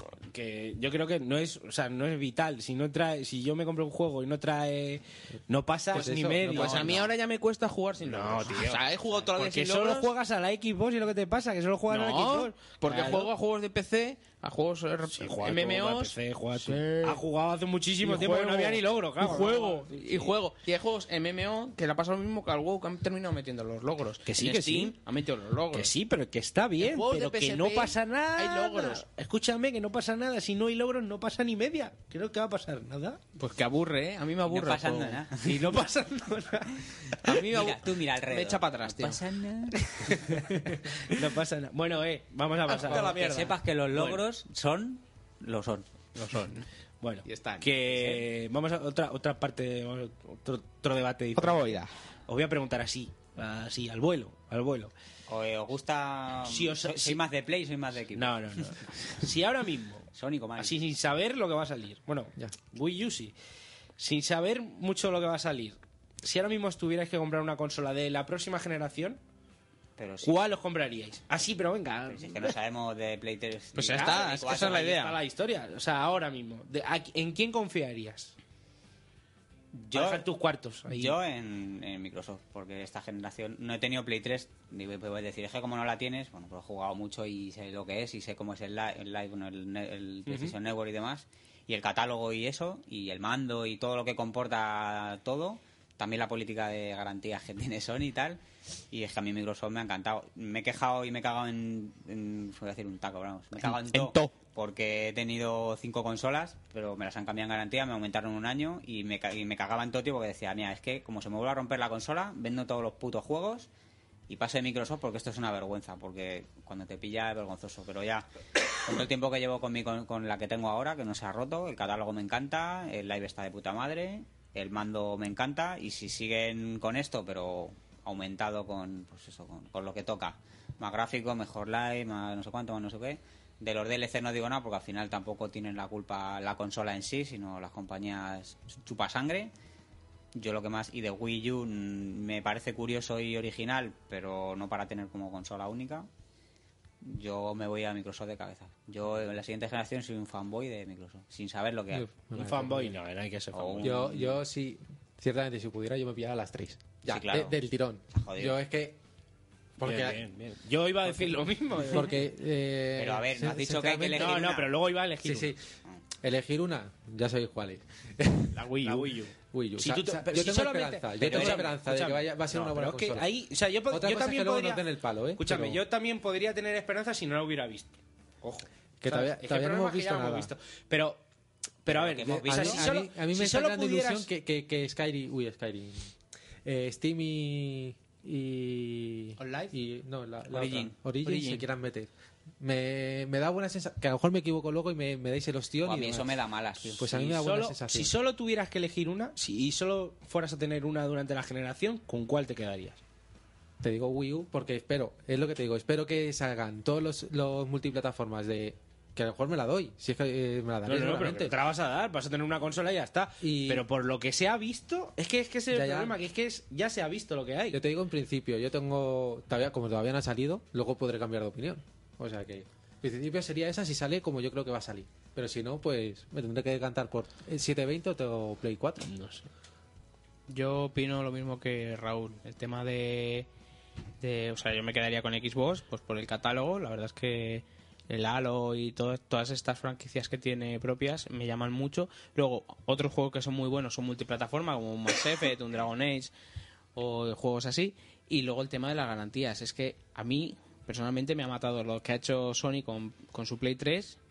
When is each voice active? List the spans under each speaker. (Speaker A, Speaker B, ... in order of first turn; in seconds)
Speaker A: 0.2-7.1, 8.0-13.3, 15.1-20.3, 24.2-24.9, 25.7-33.2, 35.4-37.2, 40.0-43.2, 47.0-54.9, 56.4-57.2, 58.1-60.0, 60.6-63.3, 64.0-69.2, 70.2-72.5, 73.8-78.3, 79.9-81.1, 90.3-90.5, 152.3-154.0, 159.8-162.1, 164.1-165.5, 168.8-174.8, 175.4-181.2, 181.8-184.3, 197.1-203.0, 210.8-217.8, 229.0-229.5
Speaker B: 5.9-7.1, 151.9-153.0, 153.8-159.0, 159.8-160.2, 161.0-161.3, 161.9-164.5, 165.2-165.6, 166.2-168.6, 169.5-173.3, 173.9-175.8, 179.0-180.5, 182.4-186.1, 186.6-198.1, 203.8-211.6, 213.4-213.8, 215.7-216.2, 217.7-229.1
Speaker C: 6.4-10.1, 11.9-17.2, 18.0-25.9, 26.8-29.0, 33.4-35.2, 37.2-39.2, 42.7-44.2, 46.1-46.6, 47.2-48.2, 51.4-51.9, 73.7-75.2, 103.9-104.3, 168.5-169.2, 189.4-189.7, 190.5-191.7, 230.5-233.5, 234.2-246.3, 246.9-254.2
Speaker D: 34.5-35.8, 37.5-40.3, 42.9-45.8, 55.3-58.7, 60.1-60.8, 70.0-70.3, 72.1-74.9, 79.7-80.3, 80.9-98.4, 98.9-113.7, 114.3-118.3, 118.8-139.5, 140.3-146.1, 147.0-152.1, 153.5-154.4, 157.1-157.6, 158.1-158.6, 163.0-164.7, 171.3-171.6, 181.9-182.9, 195.8-197.2